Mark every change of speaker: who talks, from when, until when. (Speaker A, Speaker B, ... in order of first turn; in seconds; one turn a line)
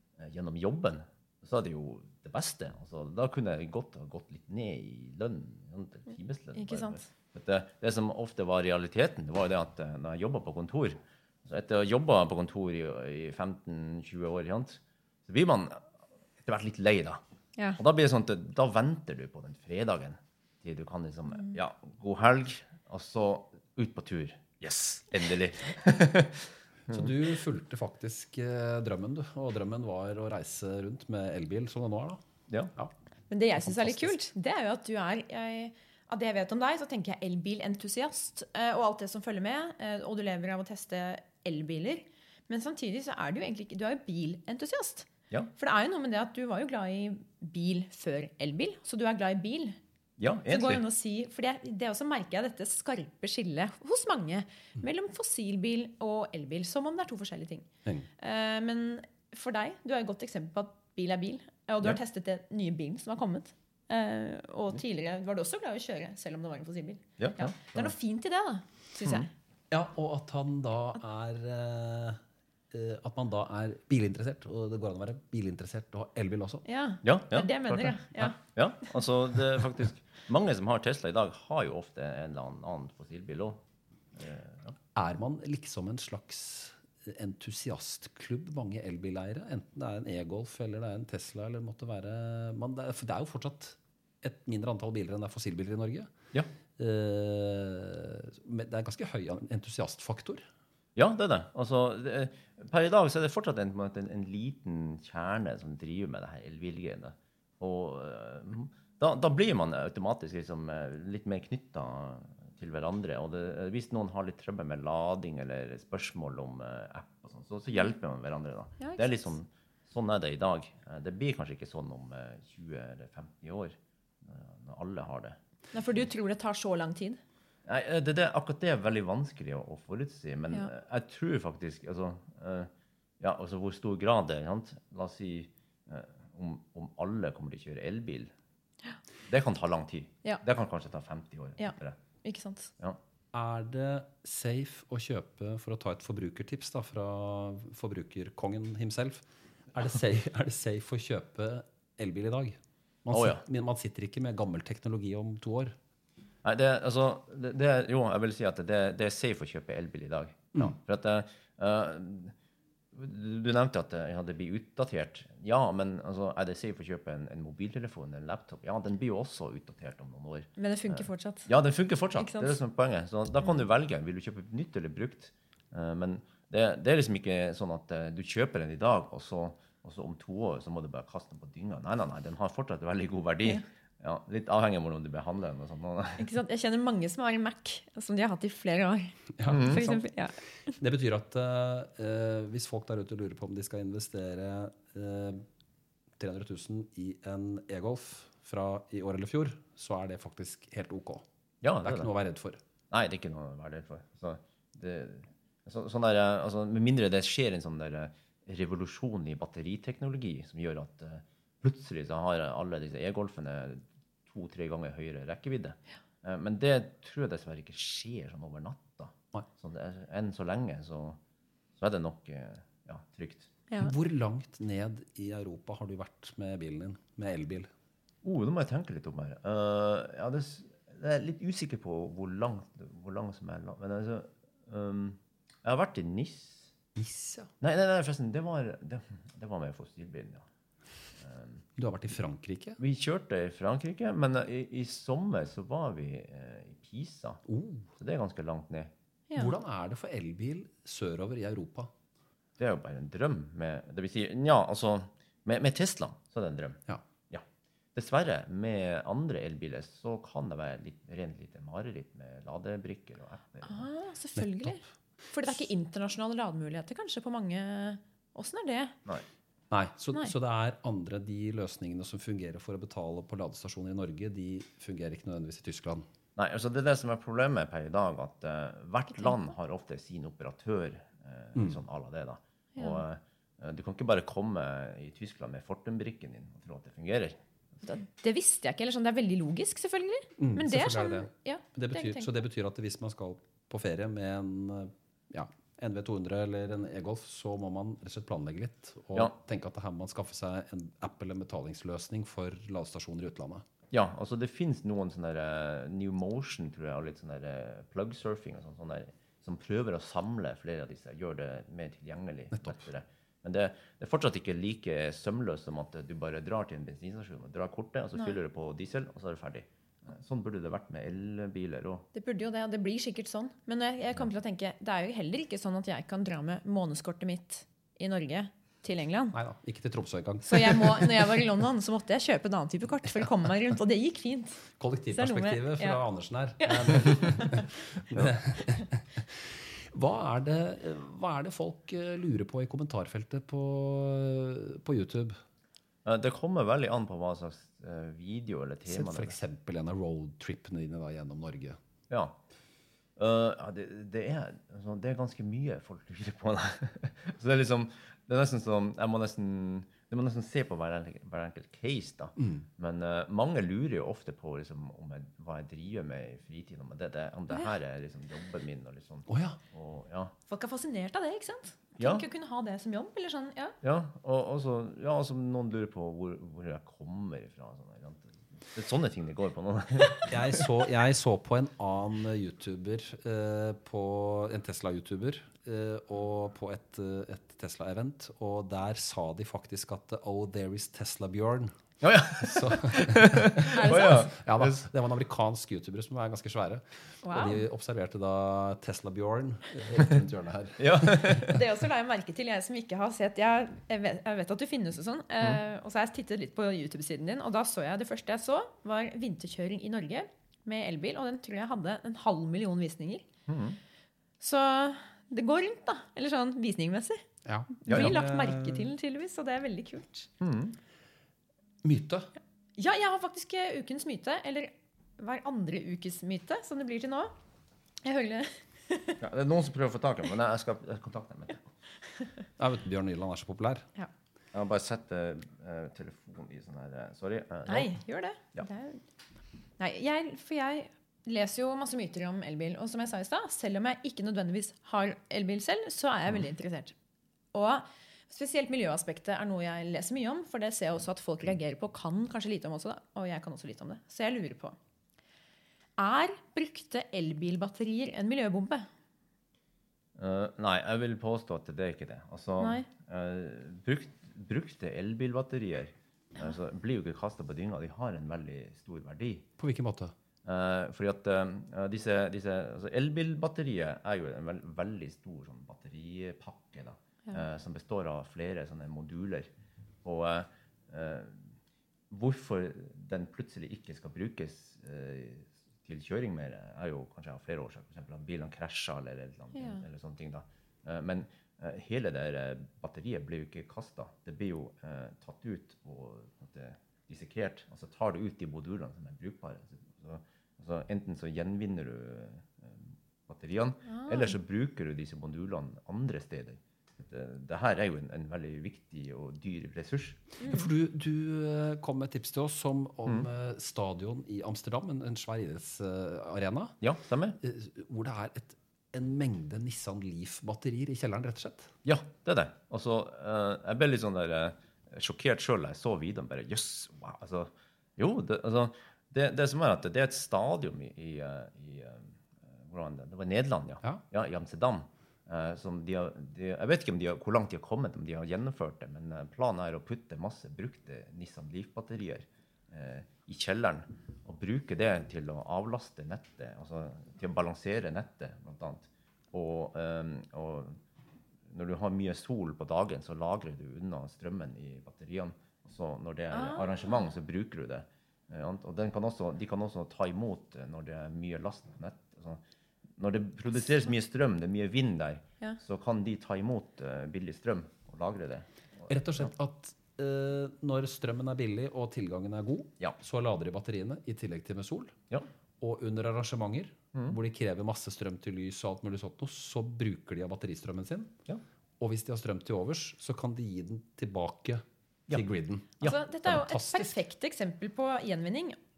Speaker A: 0.2-15.9
Speaker B: 6.5-7.0
Speaker A: 16.4-17.2
Speaker A: 17.8-27.1
Speaker C: 26.9-32.2
Speaker B: 33.3-49.8
Speaker C: 33.6-34.1
Speaker A: 50.2-50.8
Speaker B: 50.5-57.7
Speaker B: 58.2-69.3
Speaker A: 67.2-67.9
Speaker A: 69.0-69.3
Speaker C: 69.7-72.2
Speaker C: 72.7-76.6
Speaker B: 76.7-78.4
Speaker A: 77.0-83.6
Speaker A: 84.2-84.8
Speaker C: 85.0-96.2
Speaker C: 96.8-100.5
Speaker A: 101.0-125.4
Speaker B: 118.8-119.2
Speaker B: 125.7-127.2
Speaker A: 127.7-138.3
Speaker A: 139.3-142.0
Speaker B: 141.6-142.7
Speaker C: 143.3-155.7
Speaker A: 153.1-153.4
Speaker A: 156.4-162.3
Speaker A: 162.9-186.2
Speaker B: 170.6-171.5
Speaker B: 172.2-172.6
Speaker B: 186.2-190.4
Speaker C: 189.4-190.0
Speaker A: 189.5-189.9
Speaker C: 190.7-195.4
Speaker C: 196.2-201.2
Speaker A: 201.6-202.1
Speaker C: 201.8-202.6
Speaker A: 202.9-221.2
Speaker A: 221.8-223.5
Speaker C: 223.8-227.7
Speaker A: 228.2-236.7
Speaker C: 237.0-237.5
Speaker A: 237.6-240.5
Speaker A: 241.2-241.6
Speaker C: 241.8-242.8
Speaker A: 242.8-247.4
Speaker C: 247.5-247.9
Speaker A: 248.0-248.9
Speaker B: 249.3-249.6
Speaker C: 249.3-251.9
Speaker A: 252.6-263.9
Speaker B: 263.6-269.0
Speaker C: 264.4-264.8
Speaker C: 269.7-276.1
Speaker A: 276.4-287.4
Speaker B: 282.8-283.0
Speaker B: 287.8-292.3
Speaker C: 290.4-303.6
Speaker A: 303.9-322.1
Speaker C: 312.5-312.8
Speaker B: 322.1-329.4
Speaker C: 329.3-331.3
Speaker B: 330.5-336.0
Speaker C: 334.8-345.4
Speaker B: 336.6-337.7
Speaker A: 346.1-349.4
Speaker C: 348.9-351.8
Speaker A: 352.1-352.4
Speaker A: 353.2-370.3
Speaker C: 362.4-362.7
Speaker C: 369.3-369.6
Speaker B: 370.5-373.8
Speaker A: 372.0-372.3
Speaker A: 373.8-380.6
Speaker C: 380.3-391.7
Speaker A: 392.0-394.8
Speaker C: 392.4-401.6
Speaker B: 393.6-394.3
Speaker B: 397.2-397.6
Speaker A: 400.8-401.6
Speaker B: 401.3-413.3
Speaker A: 413.5-413.8
Speaker B: 414.4-417.2
Speaker C: 417.5-418.9
Speaker B: 417.9-420.3
Speaker A: 417.9-418.2
Speaker A: 420.4-420.8
Speaker C: 421.8-422.3
Speaker B: 422.8-427.3
Speaker B: 428.0-429.2
Speaker A: 429.2-431.6
Speaker C: 432.6-433.9
Speaker A: 434.5-437.9
Speaker B: 437.7-439.0
Speaker B: 439.8-446.9
Speaker B: 447.5-454.8
Speaker B: 456.0-458.9
Speaker A: 460.2-469.5
Speaker B: 462.6-462.9
Speaker C: 469.6-470.1
Speaker A: 470.4-479.5
Speaker A: 480.0-481.5
Speaker A: 482.1-510.4
Speaker B: 489.5-489.9
Speaker B: 503.9-504.3
Speaker B: 510.4-510.7
Speaker C: 510.5-516.8
Speaker A: 516.8-517.4
Speaker C: 517.4-521.8
Speaker A: 521.8-550.8
Speaker A: 551.5-562.4
Speaker B: 556.3-556.9
Speaker A: 563.0-569.3
Speaker C: 568.9-575.0
Speaker C: 575.6-581.1
Speaker C: 581.8-587.0
Speaker B: 585.8-588.6